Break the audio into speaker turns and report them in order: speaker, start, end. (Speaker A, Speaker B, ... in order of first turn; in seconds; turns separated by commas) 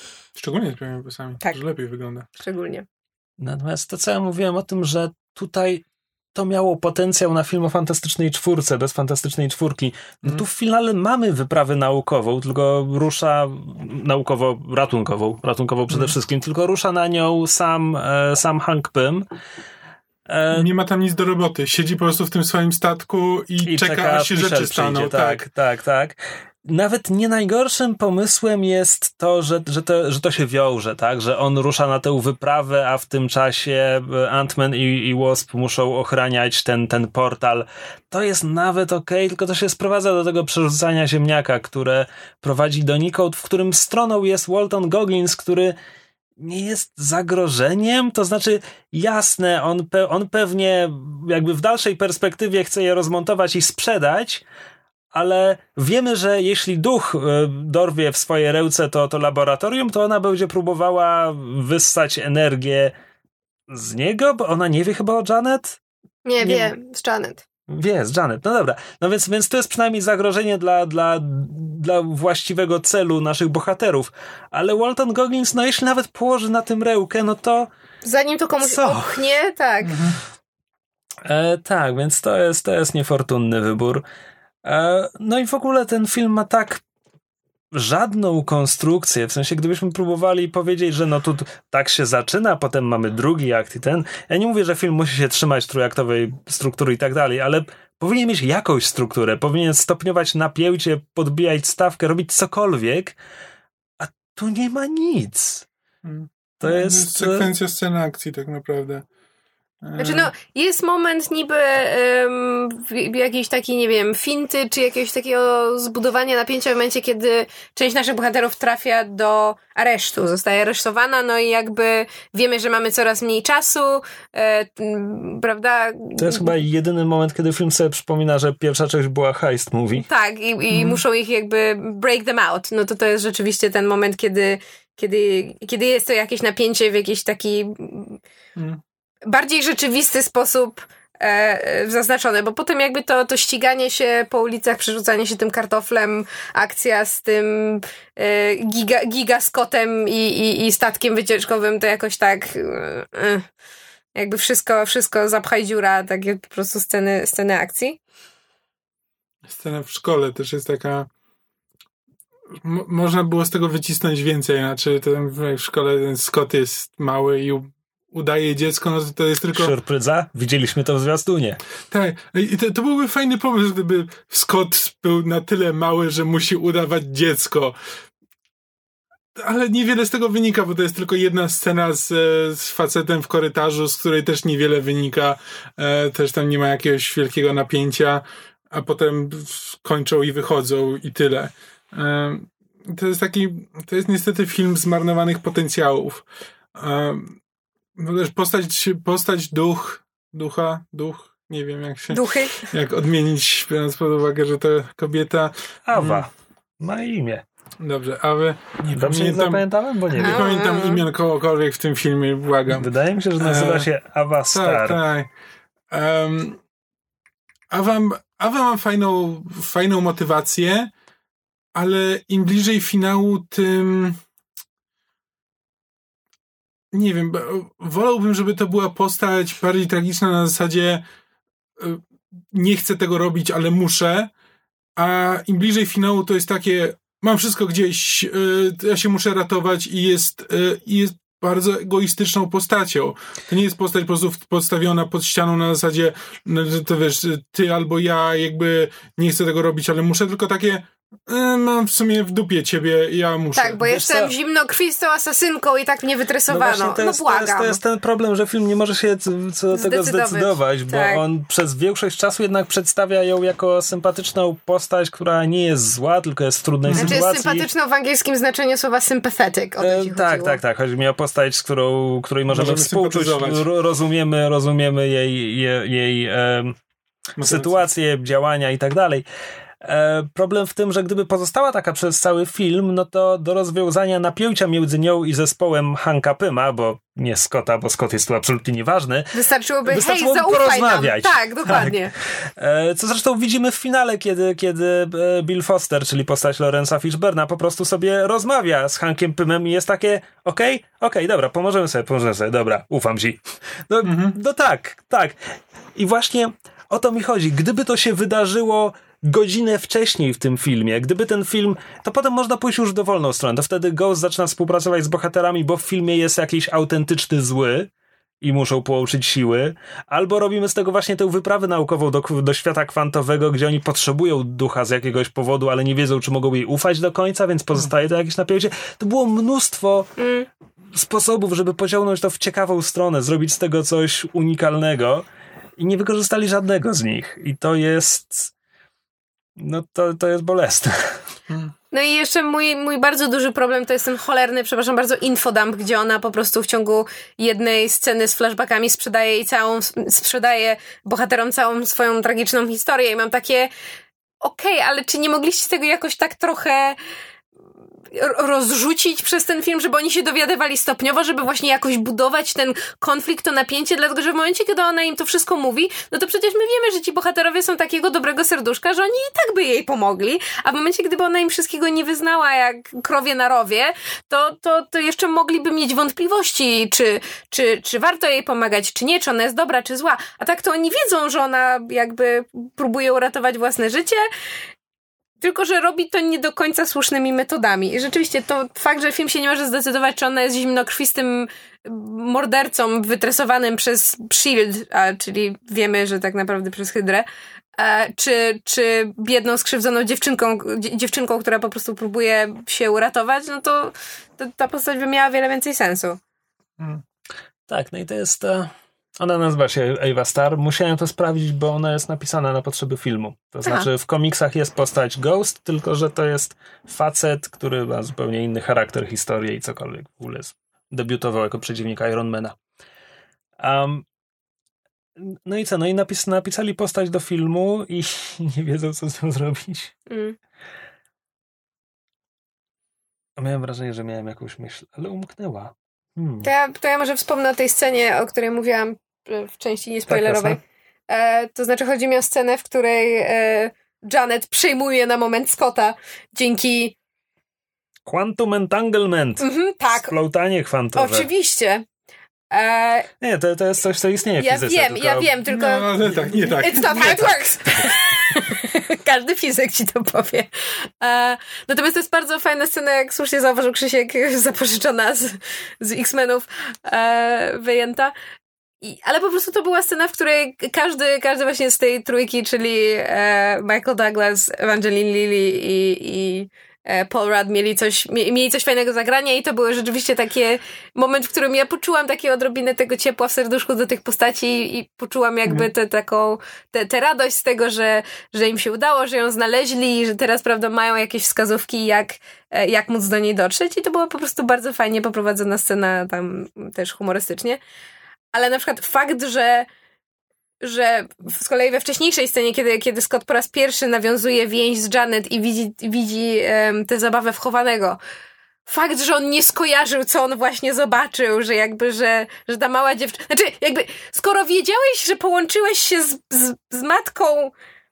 Speaker A: 0.3-2.3, Speaker B: 2.4-2.9, Speaker C: 3.4-19.3, Speaker C: 20.3-20.7, Speaker A: 20.5-25.4, Speaker C: 23.6-45.7, Speaker C: 46.4-54.4, Speaker C: 55.1-62.9, Speaker C: 63.7-65.8, Speaker B: 66.2-67.4, Speaker C: 66.4-66.7, Speaker C: 67.7-77.7, Speaker B: 78.0-80.0, Speaker C: 78.6-79.3, Speaker A: 79.8-80.2, Speaker C: 81.2-84.0, Speaker C: 84.6-86.8, Speaker C: 87.7-103.2, Speaker C: 104.0-105.7, Speaker A: 106.0-109.1, Speaker C: 106.6-107.5, Speaker A: 109.8-110.3, Speaker B: 110.0-126.5, Speaker C: 126.2-130.1, Speaker B: 129.9-138.2, Speaker A: 130.7-131.0, Speaker A: 138.6-138.8, Speaker B: 139.3-153.4, Speaker B: 154.2-158.0, Speaker A: 159.4-161.1, Speaker A: 162.6-169.7, Speaker C: 169.5-171.6, Speaker A: 171.9-177.8, Speaker A: 179.3-197.4, Speaker A: 198.0-206.3, Speaker B: 202.1-202.7, Speaker C: 205.9-207.4, Speaker A: 207.8-212.9, Speaker C: 208.9-210.5, Speaker B: 210.2-211.0, Speaker C: 212.7-215.0, Speaker A: 213.4-213.9, Speaker A: 214.5-215.3, Speaker A: 215.9-216.6, Speaker A: 217.7-220.9, Speaker A: 221.7-224.2, Speaker A: 226.9-231.0, Speaker A: 231.8-234.3, Speaker A: 234.9-253.8, Speaker B: 253.6-257.8, Speaker C: 253.8-254.3, Speaker C: 256.5-267.7, Speaker B: 259.7-261.2, Speaker A: 266.8-267.2, Speaker B: 267.0-270.6, Speaker C: 269.8-276.8, Speaker A: 272.5-273.6, Speaker A: 277.4-277.9, Speaker C: 277.4-279.2, Speaker C: 279.8-289.3, Speaker B: 289.3-292.1, Speaker C: 289.9-305.4, Speaker A: 304.0-304.4, Speaker C: 305.9-317.9, Speaker C: 318.4-330.1, Speaker B: 330.2-330.5, Speaker C: 330.9-335.2, Speaker C: 335.8-338.5, Speaker C: 339.6-341.2, Speaker B: 341.9-353.7, Speaker B: 354.4-357.0, Speaker B: 358.1-384.3, Speaker B: 385.4-406.2, Speaker C: 407.7-422.6, Speaker C: 423.6-424.0, Speaker C: 425.2-429.9, Speaker B: 430.1-430.4, Speaker C: 433.4-436.5, Speaker B: 436.4-447.0, Speaker C: 440.1-440.6, Speaker C: 448.1-451.3, Speaker B: 449.4-450.1, Speaker B: 450.9-451.9, Speaker B: 452.5-453.1, Speaker C: 453.2-455.4, Speaker B: 454.4-468.1, Speaker A: 455.5-457.4, Speaker B: 468.8-497.6, Speaker B: 498.3-499.7, Speaker B: 500.6-508.0, Speaker B: 508.6-517.5